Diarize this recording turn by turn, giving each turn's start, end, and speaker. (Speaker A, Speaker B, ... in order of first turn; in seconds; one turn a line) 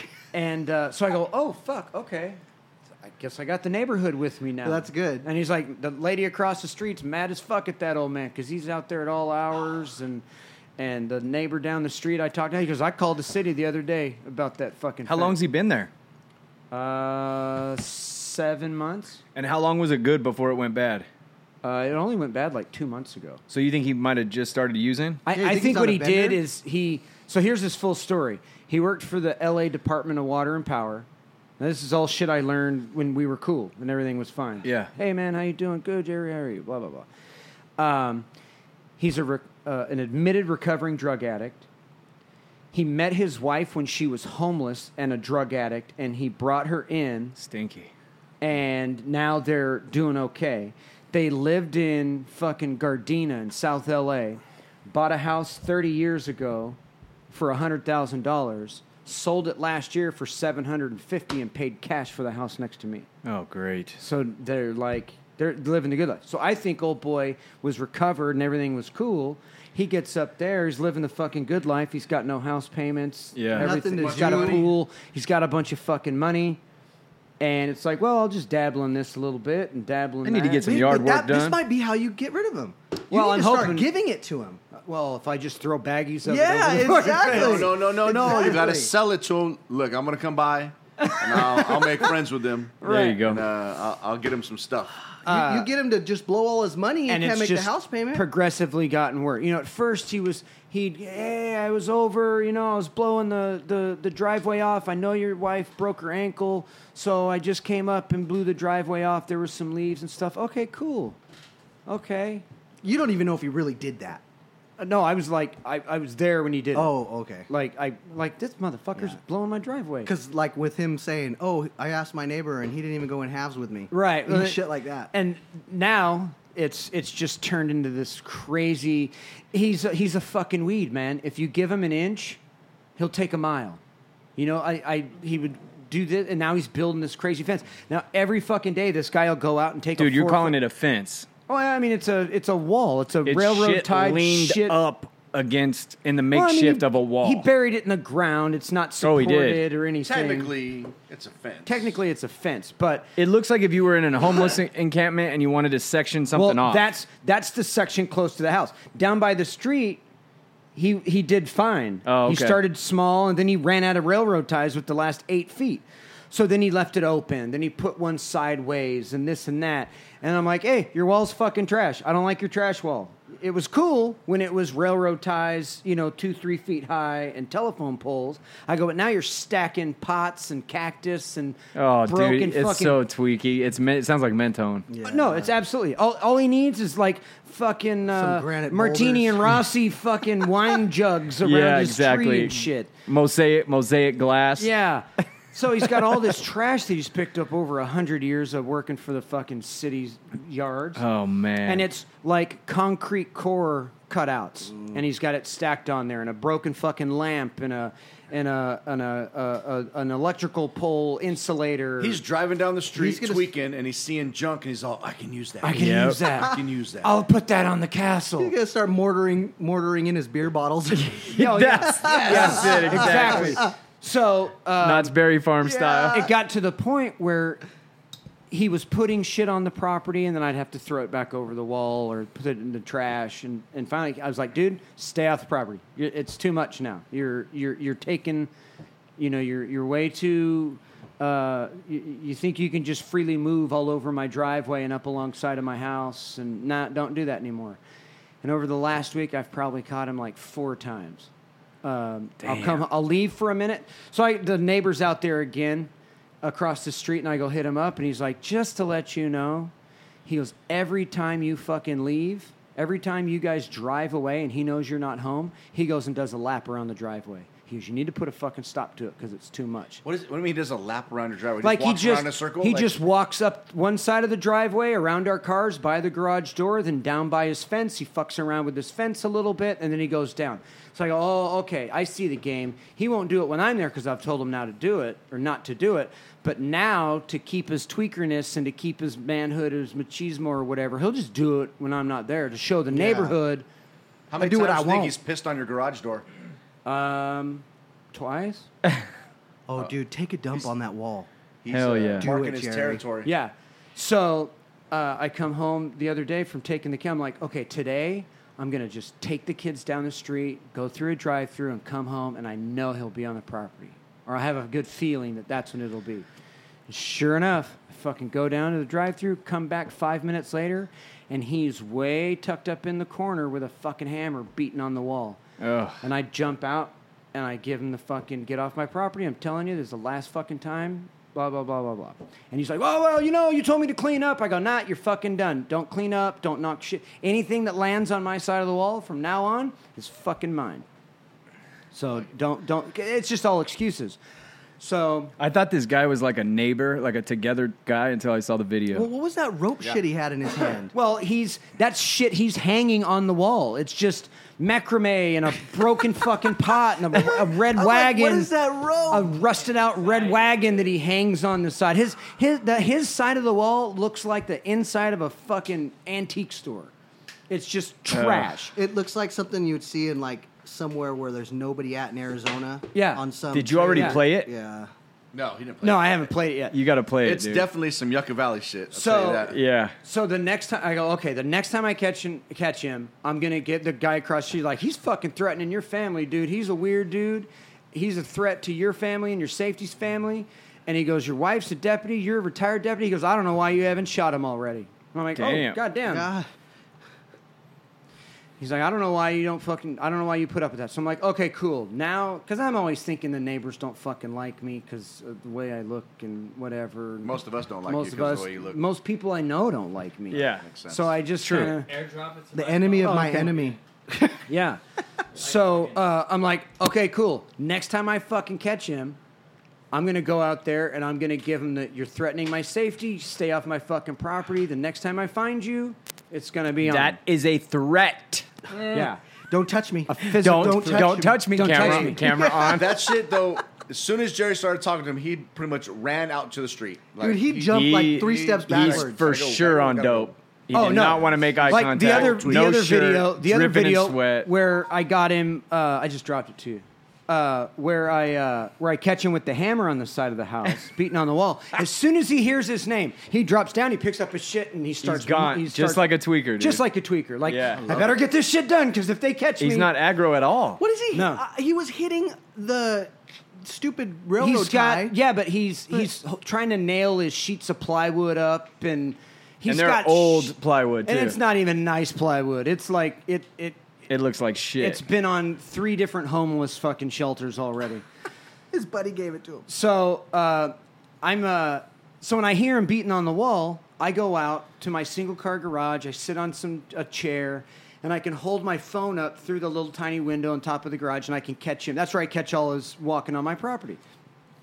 Speaker A: 0.3-2.4
Speaker A: 3.0-10.2
Speaker B: 4.6-5.3
Speaker A: 10.8-15.4
Speaker C: 15.1-15.9
Speaker A: 16.7-19.2
Speaker C: 19.4-21.1
Speaker A: 21.6-23.4
Speaker C: 23.5-25.2
Speaker A: 25.3-31.1
Speaker B: 25.3-26.4
Speaker A: 31.6-37.1
Speaker C: 34.6-34.9
Speaker A: 37.8-38.3
Speaker A: 39.0-41.6
Speaker A: 42.7-47.4
Speaker C: 47.4-47.9
Speaker A: 48.4-56.8
Speaker A: 57.3-63.1
Speaker C: 63.2-64.0
Speaker A: 64.0-76.6
Speaker C: 73.3-73.8
Speaker B: 73.5-74.6
Speaker D: 74.0-74.7
Speaker A: 77.4-80.9
Speaker C: 80.2-81.6
Speaker B: 80.6-84.6
Speaker A: 83.1-83.9
Speaker A: 84.7-87.7
Speaker B: 86.2-88.9
Speaker D: 87.3-95.0
Speaker A: 91.0-92.0
Speaker A: 92.8-93.2
Speaker C: 92.8-93.4
Speaker B: 95.2-98.2
Speaker A: 95.3-95.7
Speaker A: 97.1-111.2
Speaker A: 111.9-112.5
Speaker B: 112.8-114.2
Speaker A: 114.8-120.1
Speaker B: 116.7-117.5
Speaker B: 120.0-125.1
Speaker A: 123.9-132.4
Speaker A: 133.0-133.8
Speaker A: 134.4-140.6
Speaker C: 140.0-141.3
Speaker A: 141.5-144.8
Speaker C: 143.2-147.5
Speaker A: 146.3-150.5
Speaker C: 149.0-149.6
Speaker D: 150.0-151.9
Speaker A: 151.7-153.1
Speaker C: 153.2-156.9
Speaker A: 156.3-160.0
Speaker A: 160.8-183.0
Speaker C: 162.1-162.6
Speaker C: 181.8-184.9
Speaker B: 184.9-185.5
Speaker A: 185.0-192.9
Speaker B: 188.1-189.6
Speaker C: 191.4-194.7
Speaker A: 194.6-201.0
Speaker C: 201.0-201.9
Speaker A: 201.7-212.2
Speaker B: 204.7-205.0
Speaker D: 212.0-215.9
Speaker B: 212.9-213.5
Speaker A: 215.6-218.5
Speaker C: 215.8-216.2
Speaker D: 216.4-217.1
Speaker B: 218.4-221.3
Speaker C: 220.9-223.7
Speaker A: 221.3-225.1
Speaker B: 221.8-223.7
Speaker C: 224.8-226.3
Speaker B: 225.6-226.2
Speaker A: 226.1-227.6
Speaker A: 228.5-238.5
Speaker A: 239.2-247.8
Speaker A: 248.4-251.3
Speaker A: 251.8-255.9
Speaker C: 252.4-252.8
Speaker A: 256.4-259.7
Speaker A: 260.3-270.0
Speaker D: 270.1-273.0
Speaker A: 271.6-293.6
Speaker B: 292.9-293.4
Speaker D: 294.3-296.2
Speaker B: 294.4-295.2
Speaker A: 296.9-298.7
Speaker B: 299.7-301.3
Speaker D: 301.6-303.3
Speaker C: 301.7-302.3
Speaker B: 302.2-303.0
Speaker A: 303.2-316.3
Speaker A: 316.9-325.4
Speaker C: 325.6-326.0
Speaker A: 326.0-340.9
Speaker A: 341.9-344.2
Speaker A: 344.8-345.3
Speaker C: 345.4-349.1
Speaker B: 348.9-350.9
Speaker A: 350.9-358.5
Speaker B: 357.2-359.4
Speaker A: 359.1-366.9
Speaker A: 367.5-368.7
Speaker C: 368.1-368.5
Speaker B: 368.8-374.9
Speaker A: 372.9-373.2
Speaker C: 373.5-374.5
Speaker A: 373.9-374.2
Speaker D: 375.3-376.3
Speaker A: 375.8-376.8
Speaker C: 376.7-377.7
Speaker D: 377.2-379.6
Speaker A: 378.9-379.5
Speaker C: 379.5-379.9
Speaker A: 380.0-396.3
Speaker C: 395.4-395.8
Speaker B: 396.0-396.5
Speaker A: 398.6-411.9
Speaker D: 407.2-408.8
Speaker C: 410.3-410.6
Speaker D: 410.6-411.2
Speaker C: 411.4-411.8
Speaker E: 411.6-413.7
Speaker B: 412.5-414.4
Speaker A: 413.0-413.5
Speaker A: 414.5-414.8
Speaker A: 415.4-419.2
Speaker E: 415.4-415.9
Speaker A: 419.9-427.2
Speaker C: 426.8-428.5
Speaker A: 428.9-429.2
Speaker B: 429.5-433.1
Speaker A: 430.1-432.2
Speaker C: 430.4-432.9
Speaker D: 432.6-440.4
Speaker B: 437.2-439.2
Speaker C: 437.6-444.5
Speaker A: 440.7-459.9
Speaker D: 441.0-442.7
Speaker C: 455.0-456.8
Speaker C: 457.4-457.9
Speaker C: 459.6-460.8
Speaker B: 460.8-465.2
Speaker A: 461.1-461.4
Speaker A: 464.4-473.8
Speaker C: 469.7-471.4
Speaker C: 474.1-475.0
Speaker A: 474.8-478.1
Speaker B: 478.7-479.7
Speaker A: 479.7-494.0